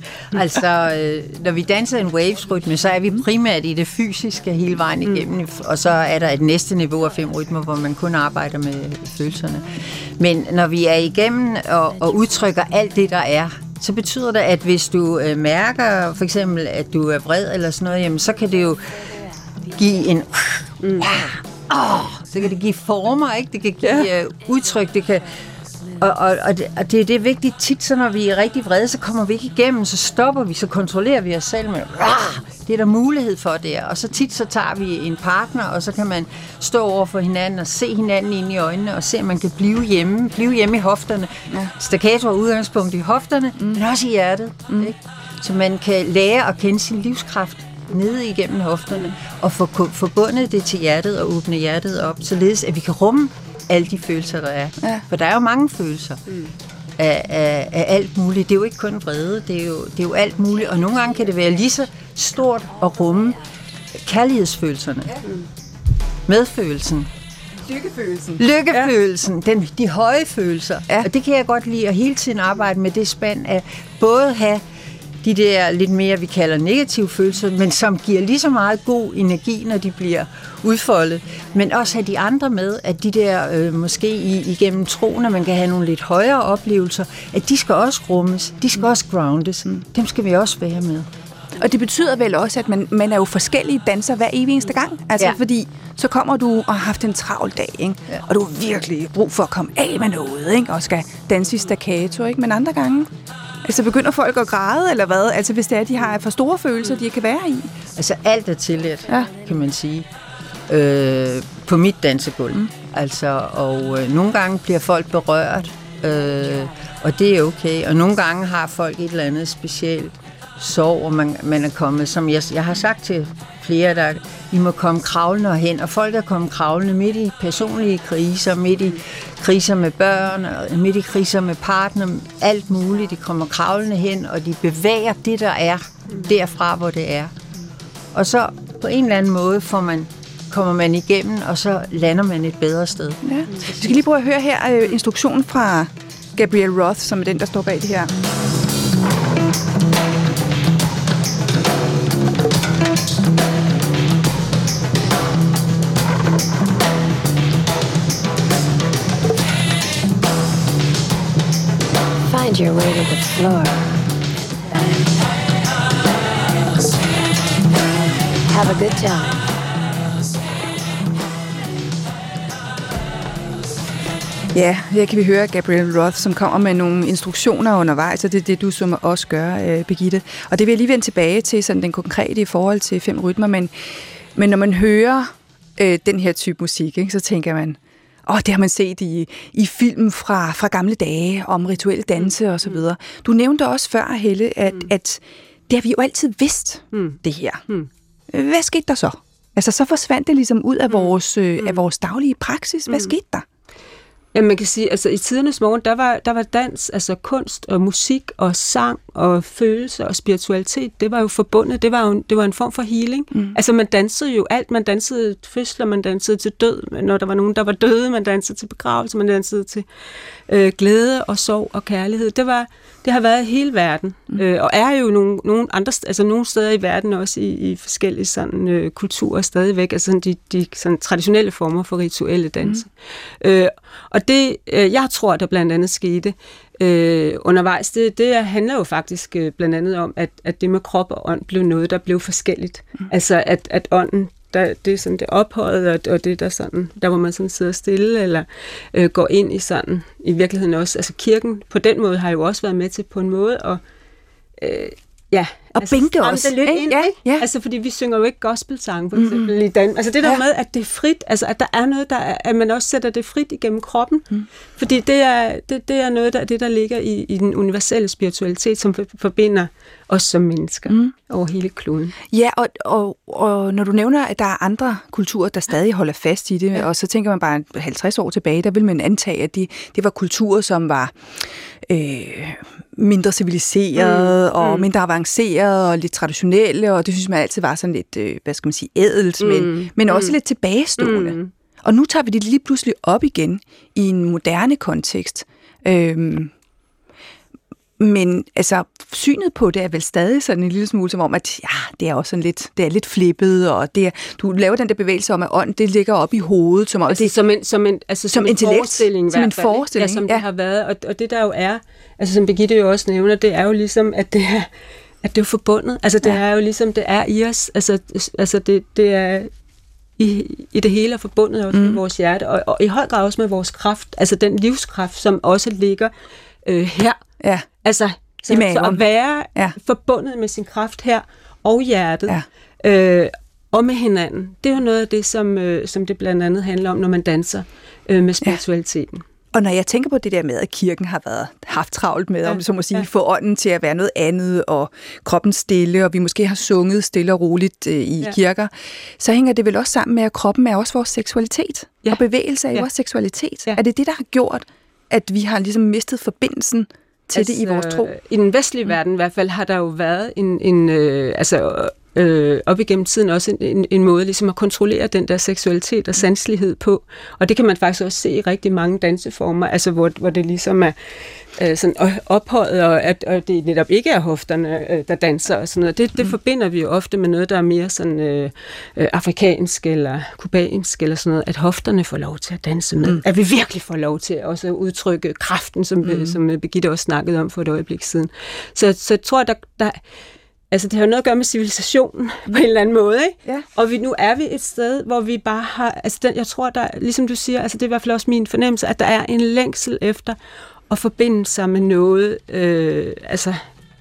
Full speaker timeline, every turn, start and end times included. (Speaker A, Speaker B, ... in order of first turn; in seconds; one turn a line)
Speaker A: 0.3-18.9
Speaker A: 19.7-25.4
Speaker B: 20.8-21.1
Speaker A: 26.0-56.2
Speaker A: 57.0-63.4
Speaker A: 63.9-65.2
Speaker A: 66.2-67.1
Speaker C: 67.6-68.4
Speaker A: 68.4-74.6
Speaker A: 75.2-91.1
Speaker C: 91.6-103.1
Speaker C: 103.6-107.7
Speaker A: 107.9-110.1
Speaker C: 109.1-109.3
Speaker A: 110.7-137.3
Speaker A: 138.1-143.2
Speaker C: 143.2-148.1
Speaker D: 162.3-164.0
Speaker D: 168.5-169.4
Speaker C: 174.5-197.7
Speaker B: 192.2-192.8
Speaker B: 196.9-197.9
Speaker C: 198.3-203.4
Speaker B: 200.9-201.8
Speaker B: 204.3-253.8
Speaker B: 254.6-272.1
Speaker C: 255.8-257.5
Speaker C: 259.2-259.5
Speaker C: 272.3-296.5
Speaker B: 284.0-284.9
Speaker B: 289.4-290.4
Speaker B: 291.0-291.5
Speaker C: 298.0-307.3
Speaker B: 307.1-314.7
Speaker C: 308.3-310.4
Speaker B: 315.2-319.5
Speaker B: 320.2-326.1
Speaker C: 321.7-322.0
Speaker B: 326.6-327.2
Speaker C: 327.4-327.7
Speaker B: 327.8-339.2
Speaker C: 328.5-329.8
Speaker C: 339.5-358.1
Speaker B: 342.5-343.0
Speaker B: 357.3-390.0
Speaker C: 386.0-386.4
Speaker B: 390.7-400.4
Speaker B: 400.9-403.6